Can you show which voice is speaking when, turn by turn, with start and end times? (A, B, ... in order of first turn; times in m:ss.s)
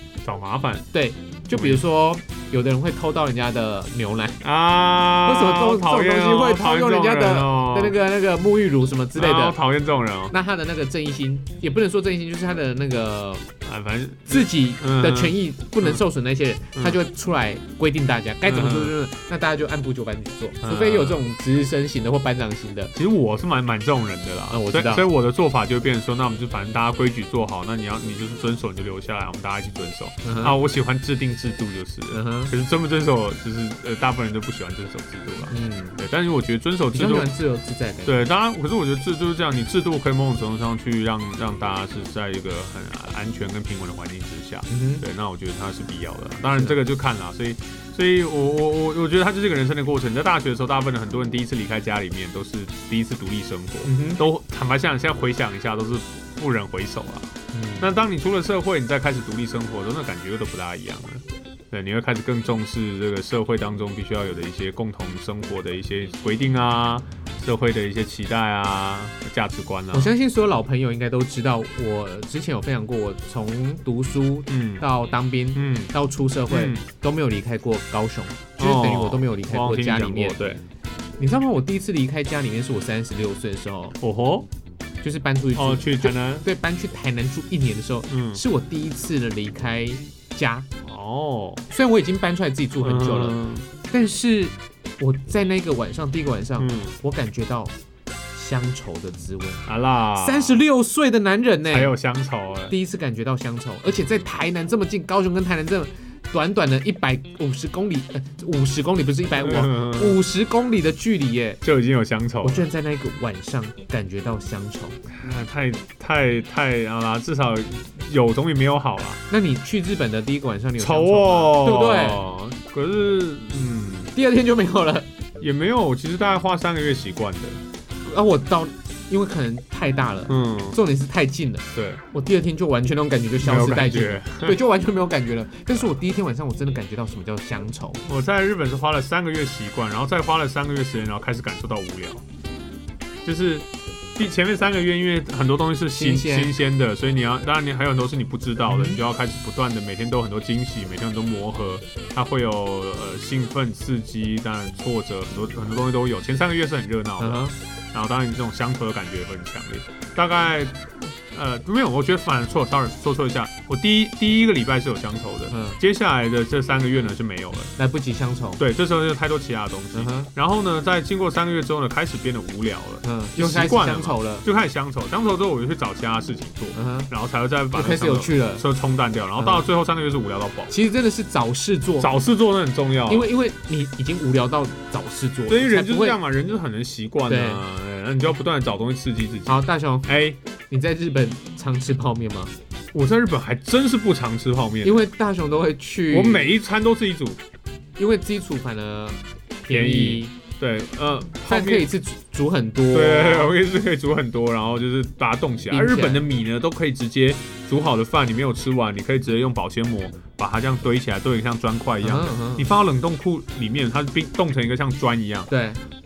0:00.2-0:00.8 A
0:00.9-0:04.4 B
0:01.5-0:01.8 A
0:04.4-0:08.0 A
0:05.2-0:09.6 B
0:09.2-0:10.3 A
0:10.3-0:13.4 B
0:13.6-0:16.0 A
0:14.3-0:22.9 B
0:18.5-0:18.9 A
0:20.6-0:21.2 A
0:22.9-0:37.3 A
0:24.5-0:25.1 B
0:30.2-0:30.6 B
0:32.1-0:32.5 B
0:35.5-0:36.0 B
0:36.9-0:38.2 B
0:38.0-1:10.1 A
0:44.7-0:45.0 B
0:46.5-0:46.8 B
0:53.8-0:54.2 B
0:57.5-0:58.0 B
1:09.9-1:20.4 B
1:14.5-1:14.8 A
1:15.6-1:15.9 A
1:16.5-1:16.8 A
1:18.6-1:20.6 A
1:21.2-1:24.0 B
1:24.0-1:24.5 A
1:25.0-1:30.7 B
1:25.6-1:26.5 A
1:28.1-1:28.4 A
1:30.8-1:31.6 A
1:31.7-1:37.7 B
1:32.8-1:33.7 A
1:36.6-1:36.9 A
1:38.3-1:41.9 B
1:39.7-1:40.6 A
1:41.7-1:42.8 A
1:42.7-1:51.6 B
1:49.4-1:50.2 A
1:51.6-1:52.7 A
1:52.4-1:55.0 B
1:55.2-1:59.2 A
1:59.3-2:02.2 B
2:00.8-2:04.1 A
2:04.2-2:05.1 B
2:05.4-2:07.6 A
2:08.0-2:18.0 B
2:10.3-2:10.8 A
2:11.8-2:12.0 A
2:13.4-2:14.6 A
2:18.0-2:22.2 A
2:23.2-2:40.8 A
2:25.9-2:26.5 B
2:28.7-2:29.0 B
2:37.2-2:37.6 B
2:41.3-2:47.7 A
2:45.5-2:45.8 B
2:47.8-2:48.6 B
2:48.6-3:00.7 A
2:49.9-2:50.3 B
2:53.0-2:54.5 B
2:56.8-2:57.1 B
2:57.7-2:58.6 B
2:59.4-2:59.6 B
3:00.7-3:02.1 B
3:02.0-3:03.3 A
3:03.1-3:06.2 B
3:05.5-3:10.4 A
3:07.3-3:07.6 B
3:09.5-3:10.1 B
3:10.7-3:12.5 B
3:12.9-3:15.0 A
3:14.8-3:16.5 B
3:16.1-3:17.4 A
3:18.0-3:20.3 B
3:19.7-3:21.9 A
3:21.5-3:23.6 B
3:22.9-3:35.5 A
3:25.7-3:26.2 B
3:32.0-3:32.7 B
3:35.5-3:35.8 B